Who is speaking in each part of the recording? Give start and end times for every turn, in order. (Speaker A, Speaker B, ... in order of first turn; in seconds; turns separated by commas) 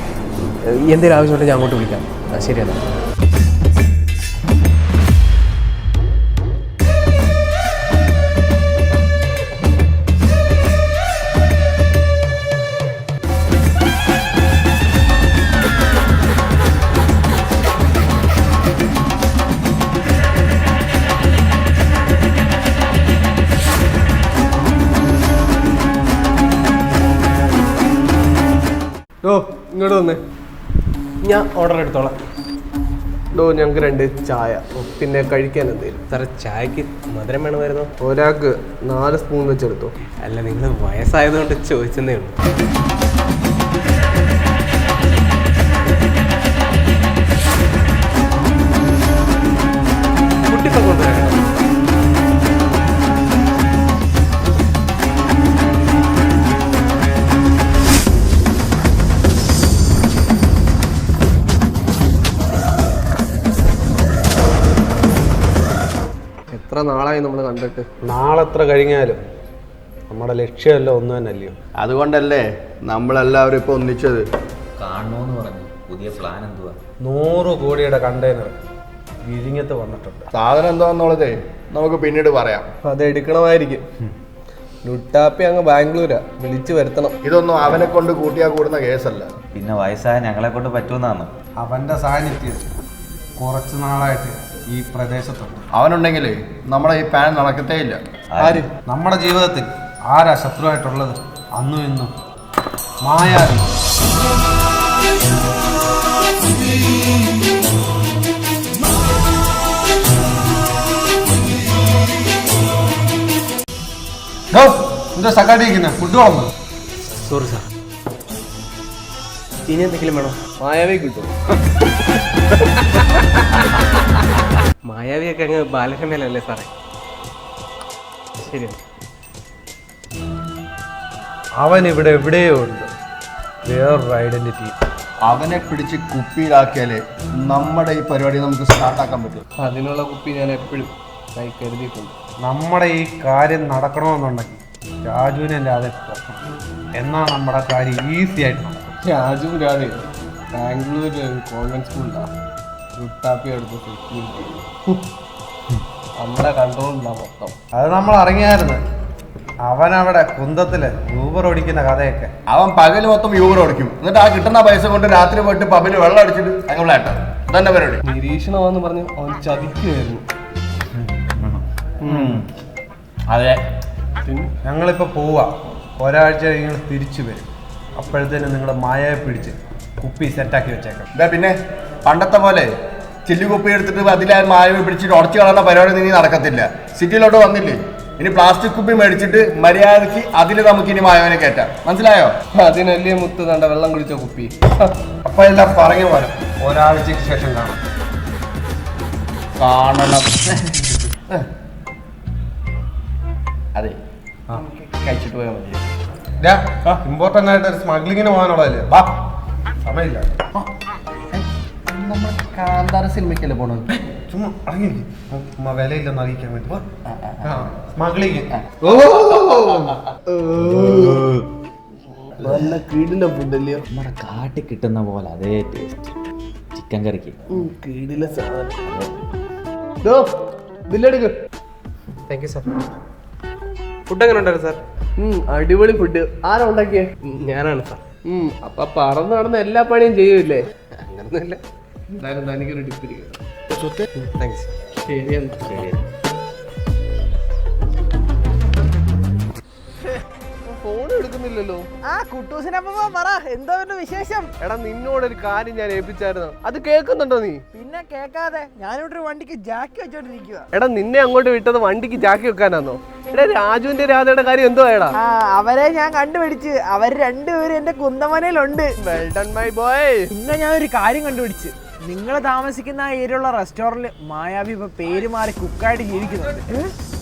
Speaker A: 0.7-2.8, Speaker B: 29.2-30.2, Speaker A: 31.2-32.2, Speaker B: 33.3-36.0, Speaker A: 36.1-37.9, Speaker B: 38.0-39.9, Speaker A: 40.2-42.4, Speaker A: 50.5-51.5, Speaker B: 66.5-67.9, Speaker C: 68.0-69.2, Speaker C: 70.1-71.6, Speaker D: 71.8-74.2, Speaker E: 74.8-76.8, Speaker C: 77.0-78.6, Speaker C: 79.2-80.3, Speaker D: 80.3-82.7, Speaker B: 82.8-83.8, Speaker B: 84.8-87.1, Speaker D: 87.2-89.3, Speaker E: 89.5-91.3, Speaker C: 91.6-92.7, Speaker C: 93.4-95.6, Speaker D: 95.7-98.0, Speaker E: 98.3-98.6, Speaker B: 98.4-98.6, Speaker C: 98.8-102.1, Speaker C: 103.0-103.7, Speaker C: 114.5-116.5, Speaker A: 117.2-117.7, Speaker A: 119.7-120.4, Speaker B: 120.6-121.3, Speaker A: 124.8-126.7, Speaker A: 128.4-128.8, Speaker C: 131.6-132.9, Speaker C: 133.7-134.7, Speaker D: 135.2-139.4, Speaker B: 139.6-142.2, Speaker C: 142.4-146.3, Speaker C: 147.0-148.9, Speaker B: 149.0-152.3, Speaker B: 153.0-155.1, Speaker B: 156.2-157.6, Speaker C: 157.7-158.8, Speaker C: 159.7-162.3, Speaker D: 162.5-168.0, Speaker B: 168.1-170.2, Speaker E: 171.3-172.4, Speaker B: 172.0-172.4, Speaker B: 174.2-174.5, Speaker C: 174.7-181.1, Speaker D: 181.2-182.7, Speaker D: 183.2-192.3, Speaker B: 192.6-194.9, Speaker C: 195.2-197.8, Speaker D: 199.6-201.4, Speaker D: 204.5-205.8, Speaker C: 206.4-209.1, Speaker C: 209.8-210.3, Speaker D: 211.3-214.0, Speaker C: 214.3-216.8, Speaker C: 217.7-219.1, Speaker D: 218.8-219.9, Speaker B: 220.3-221.1, Speaker D: 220.6-221.3, Speaker B: 222.4-223.8, Speaker E: 223.9-226.1, Speaker E: 226.8-227.3, Speaker B: 227.5-228.8, Speaker E: 228.8-229.1, Speaker B: 230.0-230.3, Speaker B: 230.9-231.3, Speaker A: 232.3-232.7, Speaker A: 234.1-234.8, Speaker B: 235.2-237.1, Speaker A: 237.2-238.0, Speaker B: 238.2-240.7, Speaker A: 241.0-241.6, Speaker B: 242.1-243.4, Speaker A: 243.8-244.7, Speaker B: 245.1-245.6, Speaker E: 245.7-246.0, Speaker B: 250.6-251.9, Speaker F: 252.0-254.5, Speaker B: 254.6-257.6, Speaker F: 257.7-260.7, Speaker B: 260.7-265.2, Speaker F: 265.2-268.9, Speaker B: 269.0-270.3, Speaker F: 270.3-276.9